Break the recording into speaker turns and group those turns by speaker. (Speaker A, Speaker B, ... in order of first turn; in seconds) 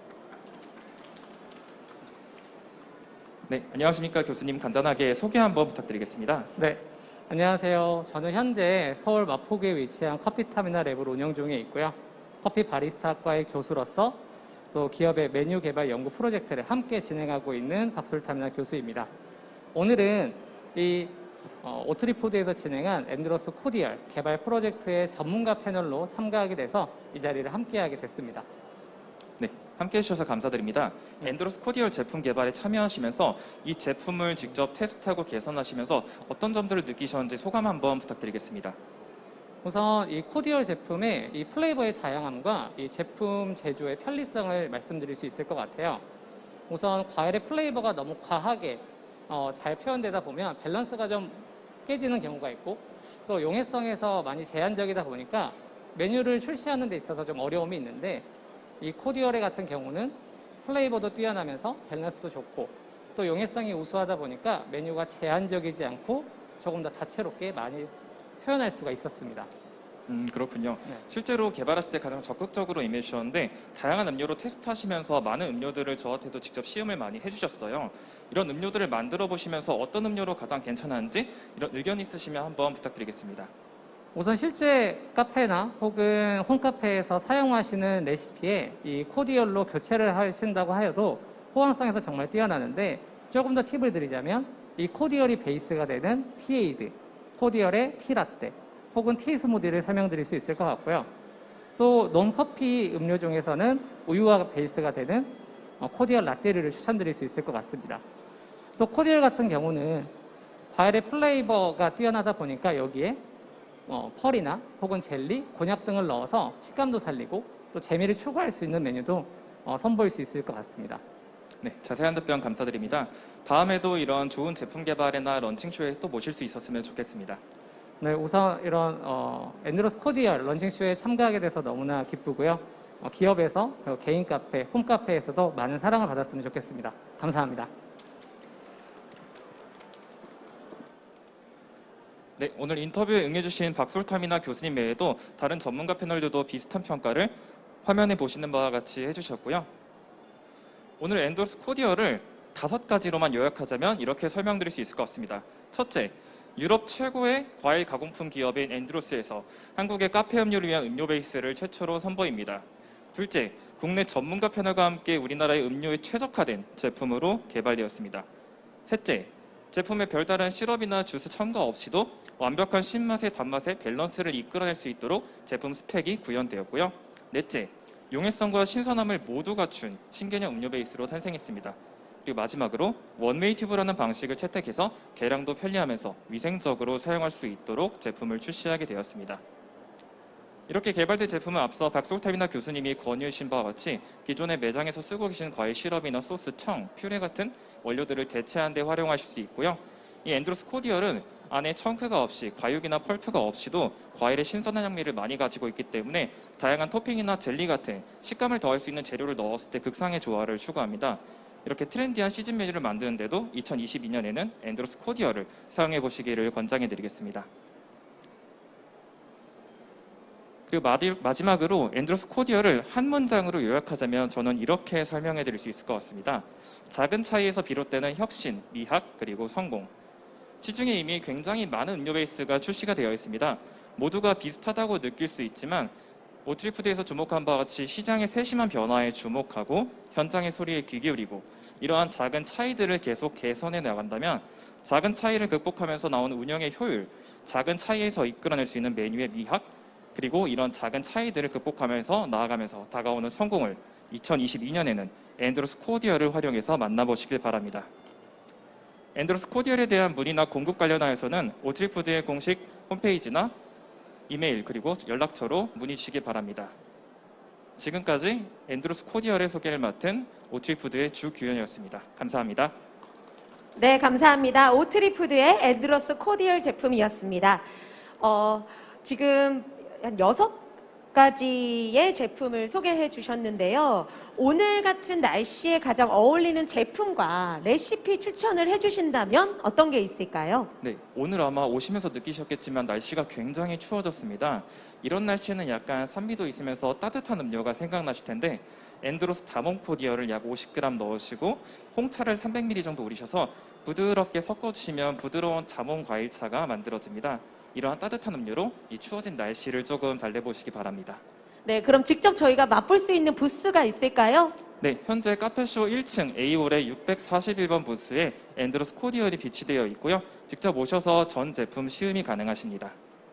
Speaker A: 3.5-6.5, 29.4-38.8, 70.1-83.5, 121.6-127.4, 142.4-149.7, 151.0-168.3, 168.8-189.4, 190.7-217.5, 220.7-229.9, 230.6-235.9, 236.4-257.9, 259.1-263.6, 264.3-266.7, 267.8-272.7, 290.8-311.2, 314.8-322.9
Speaker B: 6.6-14.2, 14.7-19.1, 19.7-28.4, 39.6-46.0, 46.7-58.2, 58.8-69.5, 84.1-101.1, 101.8-108.0, 108.8-110.1, 110.7-113.2, 113.9-121.0, 128.0-137.7
Speaker C: 273.8-277.6, 278.2-290.7, 311.6-314.6